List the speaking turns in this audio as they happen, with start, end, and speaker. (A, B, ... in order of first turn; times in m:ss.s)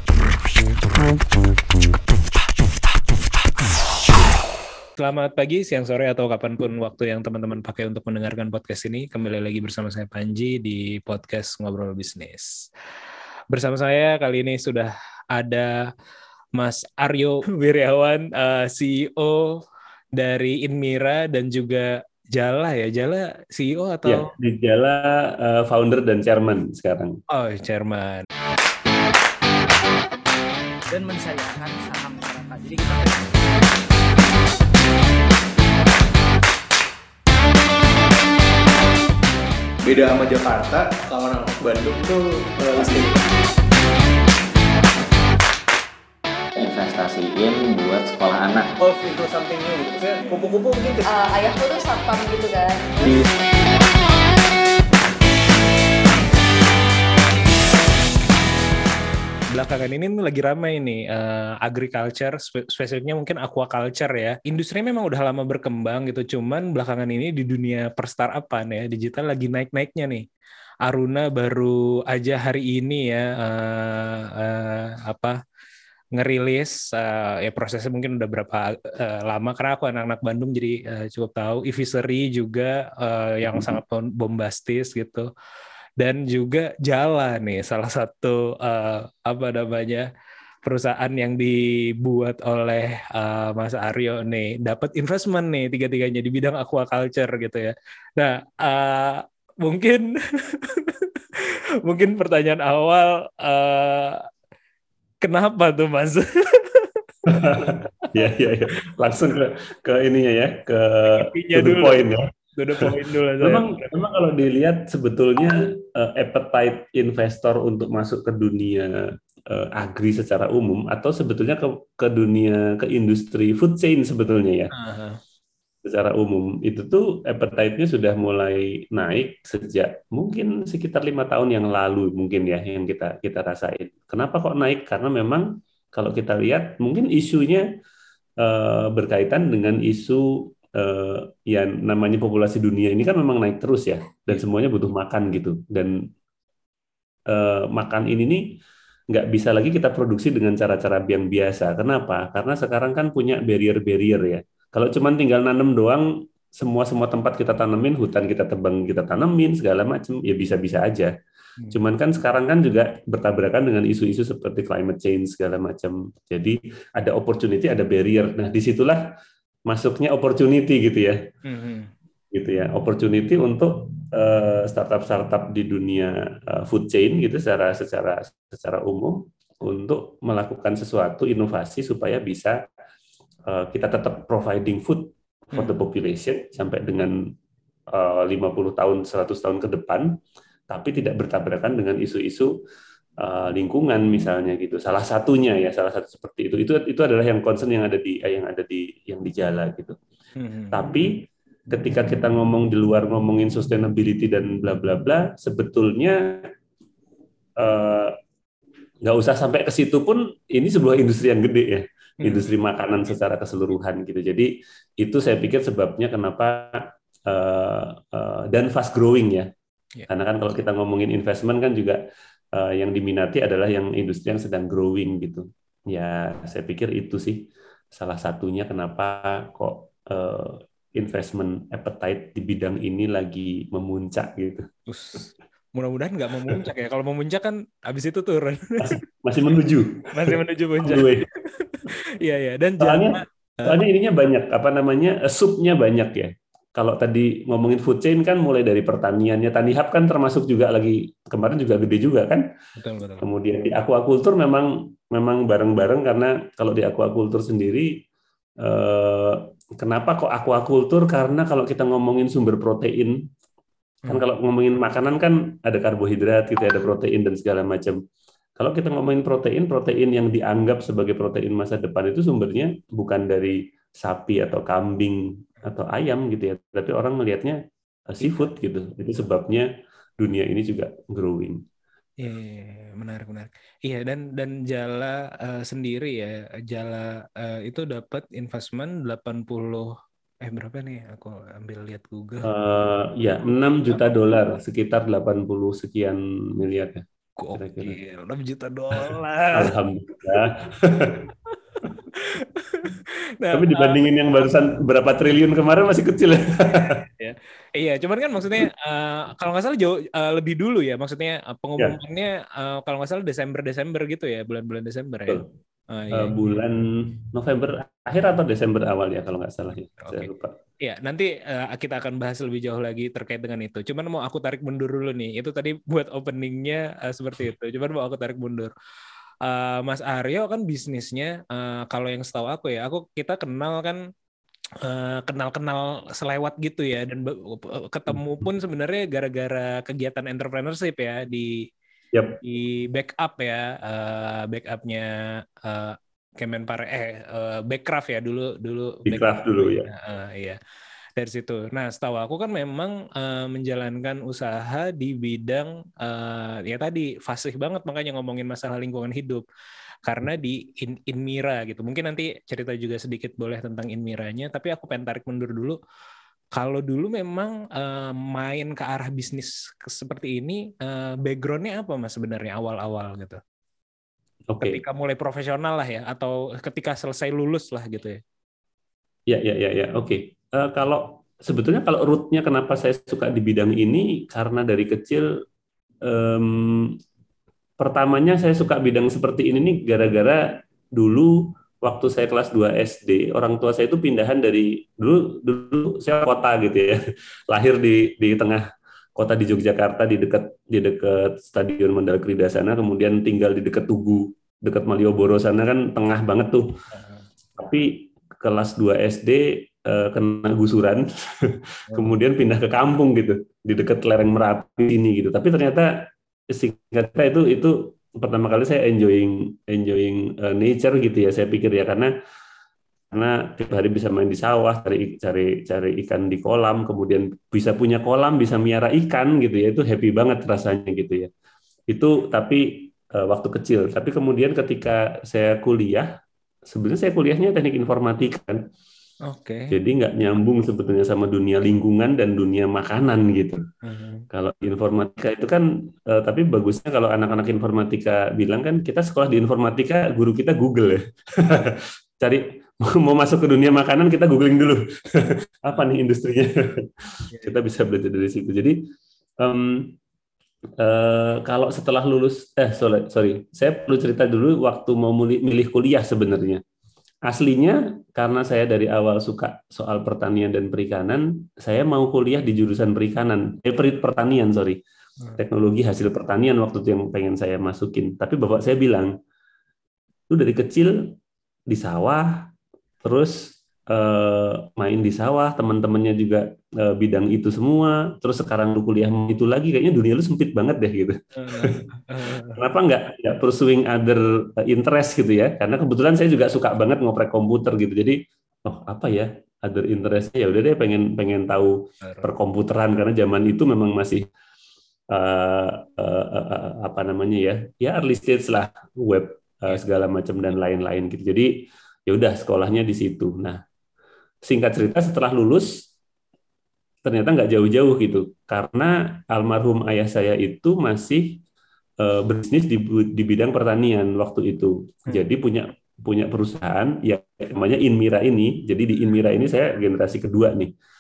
0:05.0-0:12.7 A
0:13.5-0:15.8 A
0:16.6-0:19.6 A
0:20.2-0:24.3 A
0:24.0-0:27.2 B
0:27.3-0:28.2 A
0:30.9-0:33.4 C
0:39.8-0:43.2 D
0:46.6-0:48.7 E
0:48.8-0:51.0 D
0:51.0-0:53.1 F
0:59.5-1:10.2 A
1:10.8-1:15.4 A
1:16.1-1:25.3 A
1:26.0-1:30.1 A
1:30.6-1:44.2 A
1:45.2-1:47.8 A
1:47.3-1:52.3 B
1:51.1-1:52.0 A
1:52.6-1:53.8 A
1:52.8-2:04.7 B
2:04.7-2:05.2 A
2:05.8-2:17.6 B
2:18.4-2:26.0 B
2:27.3-2:28.6 B
2:29.1-2:36.0 B
2:36.6-2:41.1 B
2:41.7-2:49.0 B
2:49.7-2:51.2 B
2:51.5-2:51.9 A
2:52.3-3:02.6 B
3:03.5-3:07.1 B
3:07.9-3:10.2 B
3:10.7-3:12.5 B
3:13.2-3:20.0 B
3:20.4-3:20.8 A
3:20.7-3:26.4 B
3:27.6-3:28.1 B
3:29.0-3:39.5 B
3:32.2-3:32.5 A
3:40.1-3:42.0 B
3:42.5-3:54.7 B
3:54.9-3:59.0 A
3:58.8-4:01.2 B
4:00.1-4:03.8 A
4:02.8-4:12.4 B
4:12.8-4:13.2 A
4:13.2-4:17.9 B
4:18.6-4:23.2 B
4:24.1-4:28.0 B
4:28.6-4:39.7 B
4:38.2-4:38.5 A
4:40.2-4:41.6 B
4:42.2-4:52.5 A
4:52.4-4:57.0 B
4:57.4-4:59.7 A
4:57.6-4:58.0 B
4:59.5-5:01.2 B
5:01.8-5:04.0 A
5:03.5-5:06.9 B
5:06.7-5:16.6 A
5:16.1-5:20.6 B
5:20.0-5:20.3 A
5:20.8-5:28.7 A
5:29.4-5:34.0 A
5:34.8-5:41.7 A
5:42.1-5:42.4 B
5:42.4-5:50.6 A
5:49.1-5:49.9 B
5:51.2-5:59.4 A
6:00.1-6:05.8 A
6:06.5-6:13.4 A
6:14.5-6:14.8 B
6:14.6-6:18.2 A
6:19.3-6:25.3 B
6:26.0-6:27.0 B
6:27.8-6:38.6 B
6:39.2-6:46.7 B
6:46.9-6:47.2 A
6:47.6-7:02.1 B
7:03.1-7:11.3 B
7:11.9-7:16.1 B
7:16.7-7:18.6 B
7:19.3-7:19.8 A
7:19.7-7:23.6 B
7:23.8-7:24.3 A
7:24.3-7:38.8 B
7:37.3-7:37.6 A
7:39.4-7:39.9 B
7:40.8-7:46.6 B
7:47.3-7:54.8 B
7:55.4-7:59.1 B
8:00.3-8:01.1 B
8:01.7-8:02.5 B
8:03.0-8:11.8 B
8:11.4-8:12.6 A
8:12.5-8:24.2 B
8:22.0-8:22.3 A
8:25.1-8:33.6 B
8:34.4-8:35.8 B
8:37.0-8:41.4 B
8:42.0-8:50.7 B